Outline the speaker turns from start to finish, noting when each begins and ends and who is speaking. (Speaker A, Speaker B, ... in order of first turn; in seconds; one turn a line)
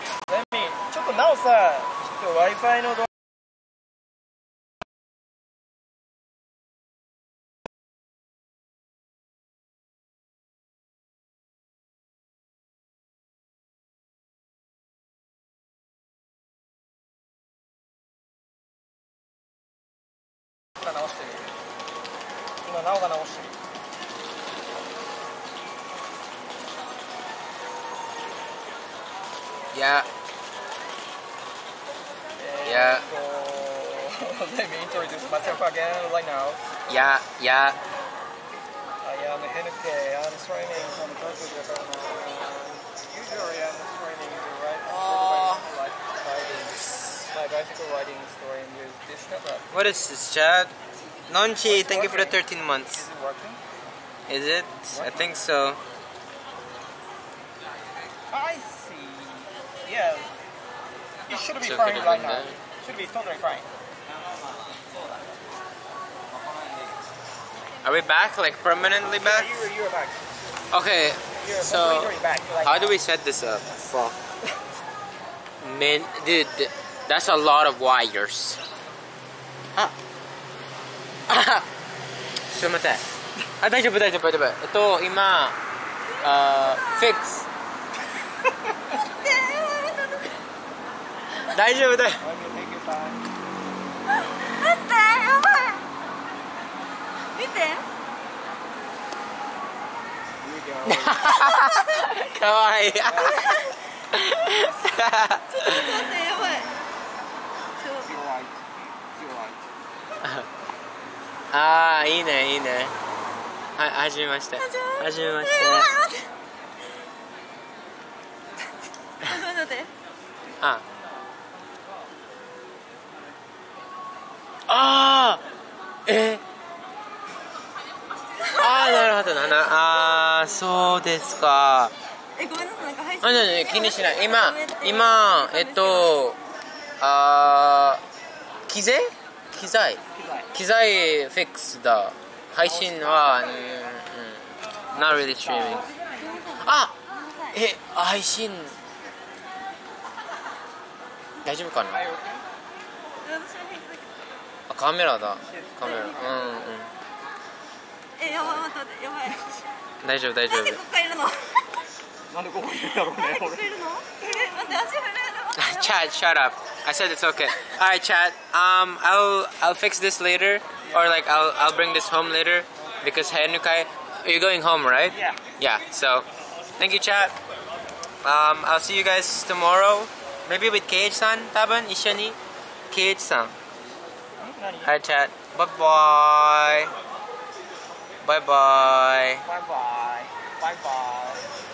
Speaker A: 0.2-3.1
Speaker A: 20.8-21.5
Speaker A: 22.6-23.6
Speaker B: 29.7-30.1
Speaker A: 32.4-36.6
Speaker B: 32.6-33.0
Speaker B: 36.9-37.8
Speaker A: 39.0-49.9
Speaker B: 44.9-45.7
Speaker B: 49.7-50.7
Speaker B: 51.3-53.1
Speaker A: 51.6-52.4
Speaker A: 52.9-53.6
Speaker B: 54.3-55.8
Speaker A: 54.9-55.3
Speaker A: 58.3-60.3
Speaker A: 61.3-63.7
Speaker B: 61.6-62.6
Speaker B: 67.8-69.5
Speaker A: 69.2-70.2
Speaker B: 70.7-74.2
Speaker A: 71.3-73.0
Speaker B: 75.6-78.6
Speaker B: 81.3-81.7
Speaker B: 82.5-83.0
Speaker B: 83.6-85.5
Speaker B: 86.2-87.5
Speaker C: 86.6-87.1
Speaker C: 89.0-90.3
Speaker B: 91.5-92.2
Speaker A: 92.2-93.2
Speaker C: 94.3-95.8
Speaker C: 97.3-97.8
Speaker A: 100.4-101.2
Speaker B: 100.8-103.6
Speaker C: 101.6-102.0
Speaker A: 103.0-103.5
Speaker C: 103.3-103.7
Speaker B: 104.1-106.2
Speaker C: 105.6-106.8
Speaker A: 107.9-109.7
Speaker B: 111.5-112.9
Speaker B: 113.8-115.9
Speaker C: 114.6-116.3
Speaker C: 119.2-119.9
Speaker B: 124.7-125.4
Speaker B: 126.0-126.4
Speaker B: 128.5-131.9
Speaker C: 128.6-129.1
Speaker C: 132.4-136.2
Speaker B: 133.2-136.4
Speaker B: 137.0-138.0
Speaker B: 138.7-140.0
Speaker A: 140.1-140.5
Speaker B: 140.5-145.9
Speaker A: 142.6-143.6
Speaker A: 144.9-146.0
Speaker C: 146.2-147.6
Speaker B: 146.6-147.0
Speaker B: 147.5-148.8
Speaker B: 151.4-152.0
Speaker A: 151.9-152.4
Speaker C: 153.2-154.2
Speaker B: 154.7-156.9
Speaker A: 155.3-156.7
Speaker C: 158.2-159.6
Speaker B: 160.0-160.8
Speaker C: 160.5-161.7
Speaker A: 162.3-164.6
Speaker C: 163.2-165.9
Speaker B: 165.5-176.2
Speaker A: 170.8-171.1
Speaker A: 175.1-175.4
Speaker B: 176.8-177.3
Speaker B: 178.2-182.4
Speaker B: 182.9-183.5
Speaker A: 184.4-184.9
Speaker B: 184.8-186.9
Speaker B: 188.2-189.4
Speaker A: 189.4-191.5